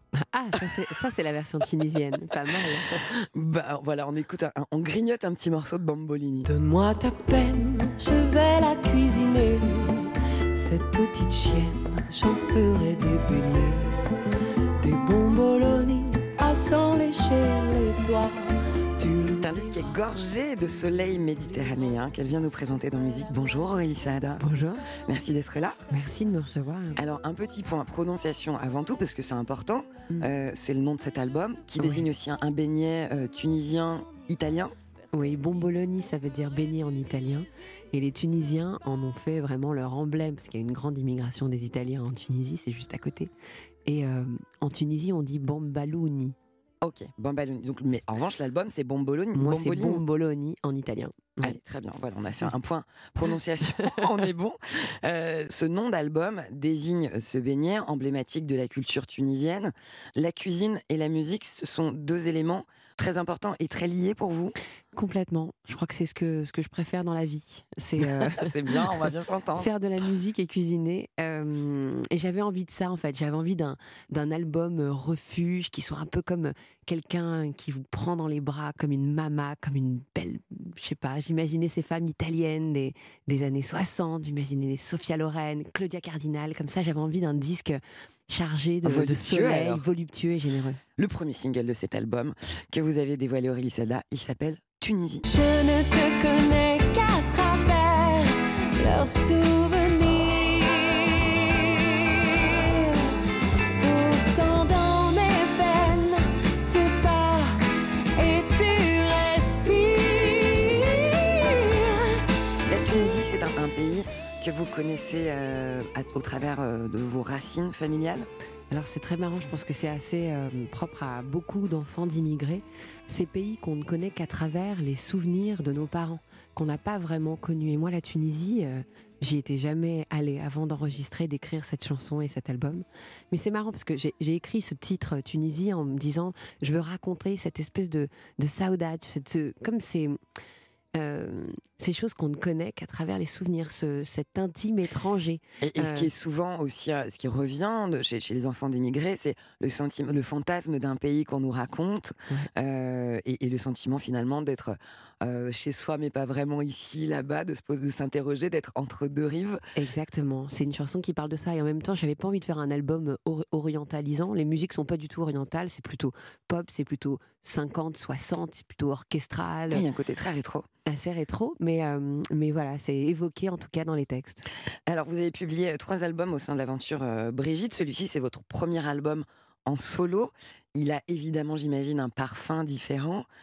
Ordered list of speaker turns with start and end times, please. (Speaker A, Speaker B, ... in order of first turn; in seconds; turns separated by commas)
Speaker A: 0.2-3.3, Speaker B: 3.3-6.5, Speaker C: 6.5-14.0, Speaker C: 14.8-20.0, Speaker B: 19.3-25.8, Speaker A: 24.4-24.9, Speaker A: 25.9-27.0, Speaker B: 27.0-34.8, Speaker A: 31.8-32.1, Speaker A: 35.1-43.3, Speaker A: 43.9-46.4, Speaker B: 46.8-50.0, Speaker A: 49.3-51.6, Speaker B: 51.4-64.5, Speaker A: 64.9-68.9, Speaker B: 68.0-69.7, Speaker A: 69.6-90.8, Speaker B: 88.8-89.8, Speaker B: 91.0-95.3, Speaker C: 95.3-103.1, Speaker C: 103.8-107.6, Speaker C: 108.1-112.2, Speaker B: 112.7-118.3, Speaker A: 118.7-140.2, Speaker A: 140.9-146.1, Speaker B: 145.6-159.6, Speaker A: 159.8-169.8, Speaker B: 169.7-170.7, Speaker A: 170.9-174.4, Speaker B: 174.9-183.2